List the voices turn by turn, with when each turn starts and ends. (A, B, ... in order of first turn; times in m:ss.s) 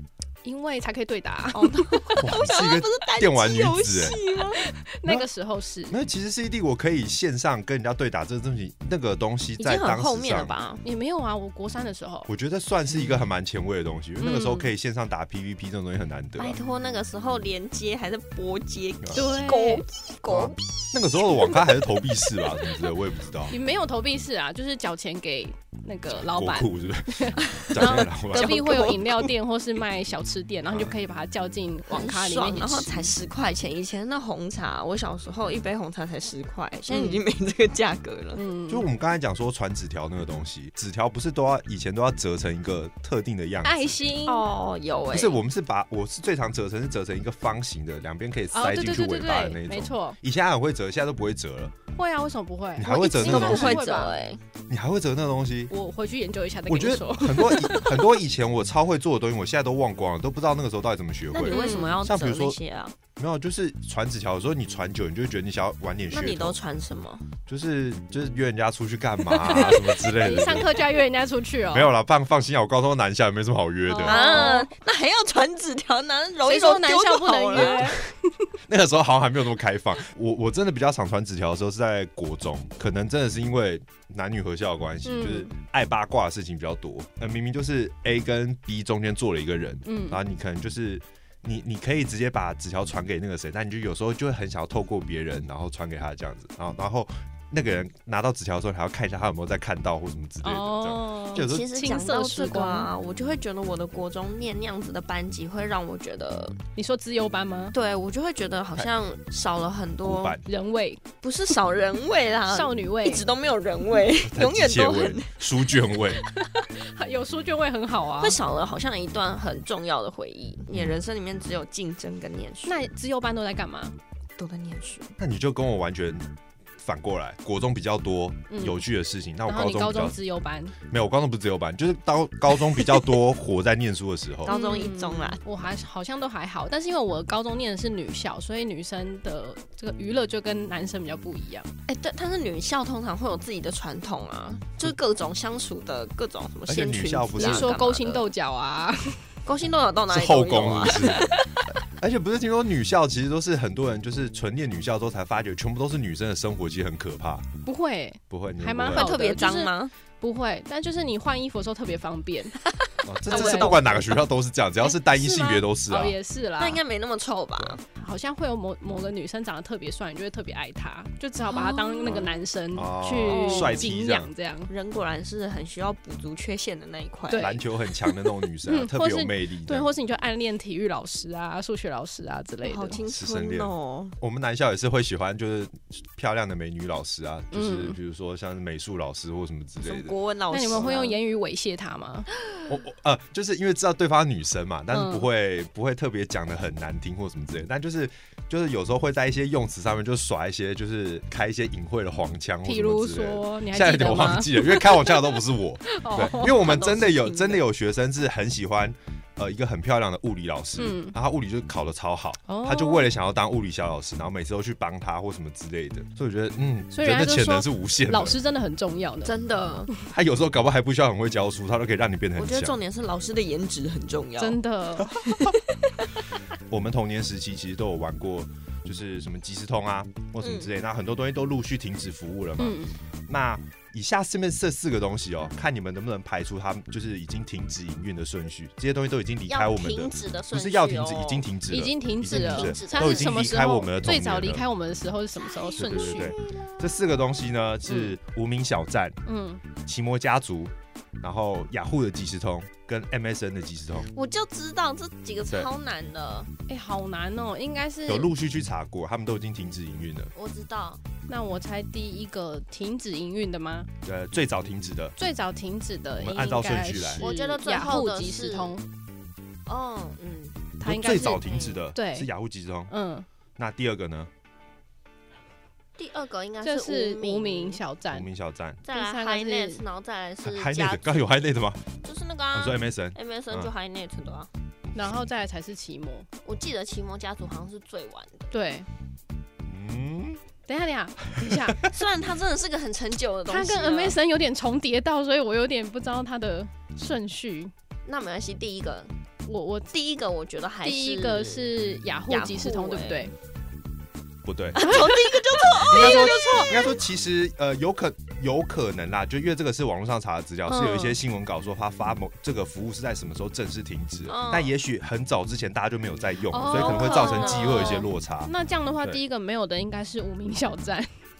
0:00.4-0:02.2 A
0:01.5-0:04.6 B
0:02.2-0:04.2 C
0:04.6-0:06.0 A
0:05.9-0:10.5 C
0:09.6-0:10.8 B
0:10.8-0:12.3 A
0:12.3-0:16.6 C
0:14.2-0:14.7 A
0:16.4-0:20.6 B
0:19.1-0:19.8 A
0:20.3-0:23.5 C
0:23.5-0:33.0 A
0:26.1-0:29.2 C
0:27.4-0:29.0 B
0:30.7-0:31.0 C
0:31.9-0:38.4 B
0:36.9-0:37.2 A
0:38.3-0:38.9 A
0:38.7-0:44.0 C
0:43.6-0:44.4 A
0:44.3-0:45.4 B
0:45.1-0:51.7 C
0:48.5-0:50.2 A
0:51.9-0:54.1 A
0:52.8-0:53.8 C
0:53.2-0:54.4 B
0:54.7-0:55.7 C
0:55.7-0:57.9 A
0:56.7-1:02.6 C
1:01.3-1:03.0 B
1:01.4-1:01.9 A
1:03.2-1:06.6 C
1:06.1-1:07.3 B
1:07.4-1:10.7 C
1:09.5-1:11.9 A
1:11.7-1:14.4 C
1:13.9-1:14.7 A
1:14.0-1:18.0 B
1:16.5-1:18.1 A
1:18.7-1:41.7 C
1:25.0-1:25.5 A
1:29.8-1:30.2 A
1:40.4-1:42.9 A
1:41.3-1:46.6 B
1:46.8-1:47.7 A
1:47.7-1:50.4 B
1:50.0-1:50.4 C
1:50.4-1:51.0 A
1:51.2-1:55.4 B
1:52.5-1:53.2 A
1:54.2-1:56.2 C
1:56.4-1:58.4 A
1:58.2-2:02.8 B
2:00.7-2:01.0 C
2:02.6-2:04.0 A
2:04.4-2:05.1 B
2:05.2-2:06.2 C
2:06.8-2:10.2 C
2:08.5-2:08.8 A
2:09.4-2:10.7 A
2:10.9-2:14.5 C
2:14.4-2:15.4 B
2:14.5-2:21.7 A
2:21.9-2:28.3 B
2:26.7-2:27.7 C
2:27.4-2:29.2 A
2:29.4-2:31.4 B
2:30.1-2:31.2 C
2:32.0-2:37.4 C
2:37.6-2:42.6 A
2:38.3-2:39.0 C
2:38.9-2:39.9 B
2:42.8-2:44.2 B
2:43.0-2:46.2 C
2:43.3-2:43.9 A
2:44.8-2:46.8 A
2:46.6-2:47.8 B
2:48.0-2:54.7 A
2:51.5-2:52.2 B
2:52.1-2:54.3 C
2:53.3-2:53.9 B
2:54.7-2:57.5 B
2:57.3-2:57.6 A
2:57.4-2:59.9 C
2:58.7-3:03.0 A
3:02.6-3:04.1 B
3:03.1-3:10.1 C
3:07.5-3:08.0 A
3:09.8-3:11.2 B
3:10.5-3:12.3 A
3:12.7-3:38.4 C
3:14.9-3:15.3 A
3:22.6-3:26.7 A
3:26.4-3:27.6 B
3:30.8-3:31.2 A
3:32.5-3:33.1 A
3:36.9-3:39.3 A
3:39.2-3:39.9 B
3:40.0-3:42.8 C
3:42.4-3:44.6 B
3:44.4-3:45.1 A
3:45.1-3:45.5 C
3:45.2-3:45.5 B
3:46.7-4:04.6 C
3:50.4-3:50.7 B
3:52.6-3:52.9 A
3:59.5-4:01.5 B
4:01.7-4:06.3 A
4:02.3-4:03.4 B
4:05.4-4:07.0 B
4:05.8-4:09.2 C
4:07.9-4:08.1 A
4:09.2-4:09.6 A
4:09.8-4:14.1 C
4:14.1-4:16.5 B
4:16.7-4:18.3 A
4:18.1-4:20.3 C
4:20.3-4:21.0 B
4:21.3-4:23.9 A
4:24.0-4:25.1 C
4:25.2-4:28.8 A
4:26.2-4:27.2 C
4:27.2-4:28.7 B
4:29.7-4:30.7 B
4:30.8-4:32.3 A
4:30.8-4:32.9 C
4:31.2-4:31.8 B
4:32.9-4:33.2 A
4:33.6-4:34.3 C
4:36.0-4:37.8 B
4:36.6-4:38.3 A
4:38.1-4:38.8 C
4:38.8-4:41.3 B
4:38.9-4:39.8 A
4:40.4-4:41.9 C
4:42.0-4:44.5 B
4:42.5-4:43.7 C
4:44.9-4:46.3 A
4:46.4-4:48.5 B
4:48.5-4:48.9 A
4:49.6-4:50.4 C
4:50.7-4:51.8 A
4:51.4-4:51.8 C
4:51.9-4:54.2 B
4:53.5-4:57.7 A
4:58.0-4:59.1 B
4:59.4-4:59.9 A
4:59.9-5:01.7 B
5:00.8-5:03.3 A
5:02.3-5:03.3 B
5:04.4-5:04.9 C
5:04.8-5:06.9 B
5:04.8-5:06.8 A
5:05.9-5:18.5 C
5:10.7-5:11.2 A
5:14.3-5:14.7 B
5:16.5-5:21.1 A
5:16.6-5:18.1 B